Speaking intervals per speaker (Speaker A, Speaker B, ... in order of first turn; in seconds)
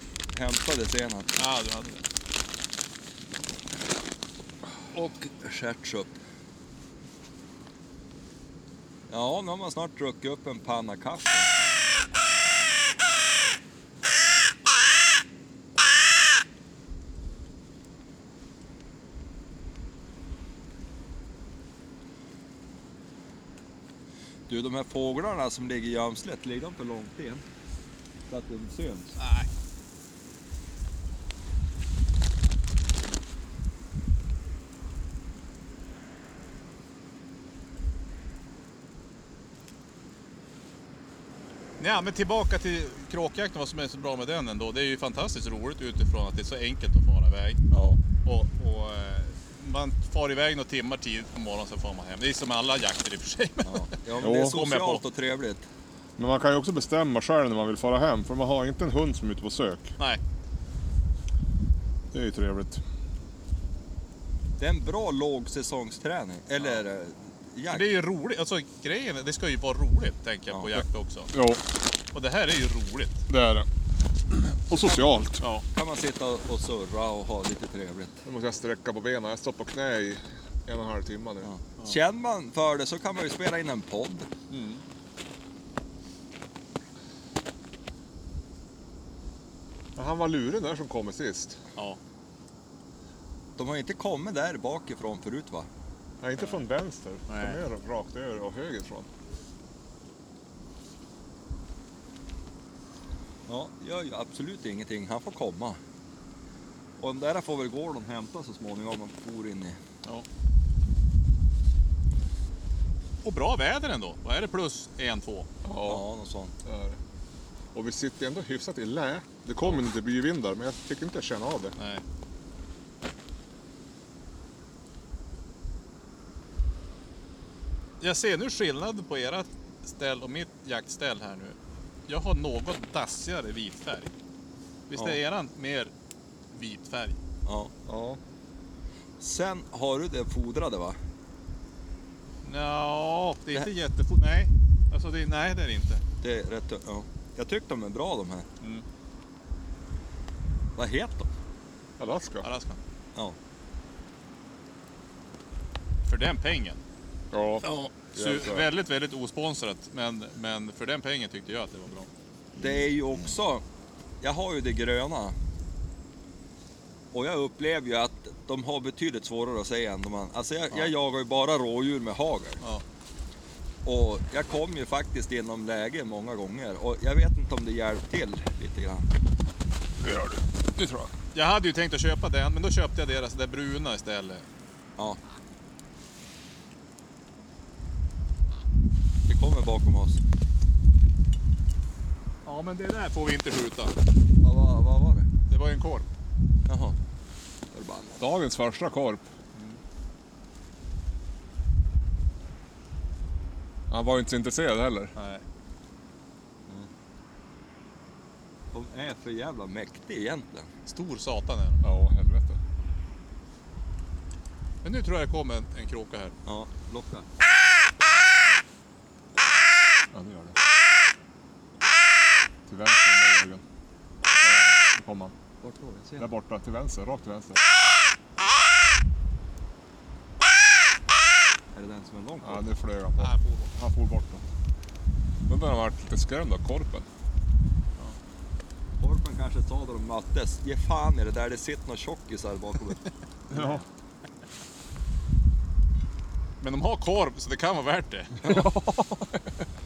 Speaker A: 0.3-1.4, 4.9-6.2, 9.1-11.5, 24.5-27.4, 28.3-29.2, 53.6-55.7, 64.6-68.0, 75.7-78.2, 81.4-84.3, 93.6-95.7, 103.5-105.8, 107.0-109.8, 115.8-116.5, 137.4-138.2, 139.2-141.0, 146.2-148.5, 150.8-151.3, 162.6-163.6, 164.2-165.3, 167.1-172.6, 173.8-179.1, 189.3-190.2, 194.4-195.3, 196.7-196.9, 197.7-198.2, 208.7-210.7, 216.4-217.2, 225.6-226.3, 231.7-232.7, 239.0-243.1
Speaker B: 1.4-2.0, 29.2-29.5, 41.8-47.6, 48.2-55.0, 67.7-71.3, 72.1-73.2, 84.5-84.8, 96.4-96.6, 97.3-97.6, 113.2-115.5, 121.8-122.0, 128.0-134.1, 134.9-135.9, 136.5-137.2, 142.4-146.0, 152.4-152.8, 156.0-156.8, 157.6-162.1, 181.3-184.4, 192.4-193.9, 195.5-196.1, 199.5-199.8, 205.2-205.4, 210.9-211.9, 214.8-216.3, 233.2-233.7, 246.6-248.6
Speaker C: 47.7-48.0, 54.2-54.6, 56.2-59.9, 62.1-62.8, 71.3-71.6, 73.3-73.7, 74.3-75.4, 78.2-81.5, 90.0-91.6, 96.2-99.1, 115.6-116.0, 116.6-117.0, 117.7-121.7, 152.0-152.5, 157.3-158.7, 180.0-181.1, 198.2-199.2, 203.9-205.1, 211.8-212.6, 220.1-220.6, 222.7-223.6, 224.4-225.3, 226.2-227.6, 232.4-234.4, 235.5-237.1, 243.5-243.8, 248.4-249.4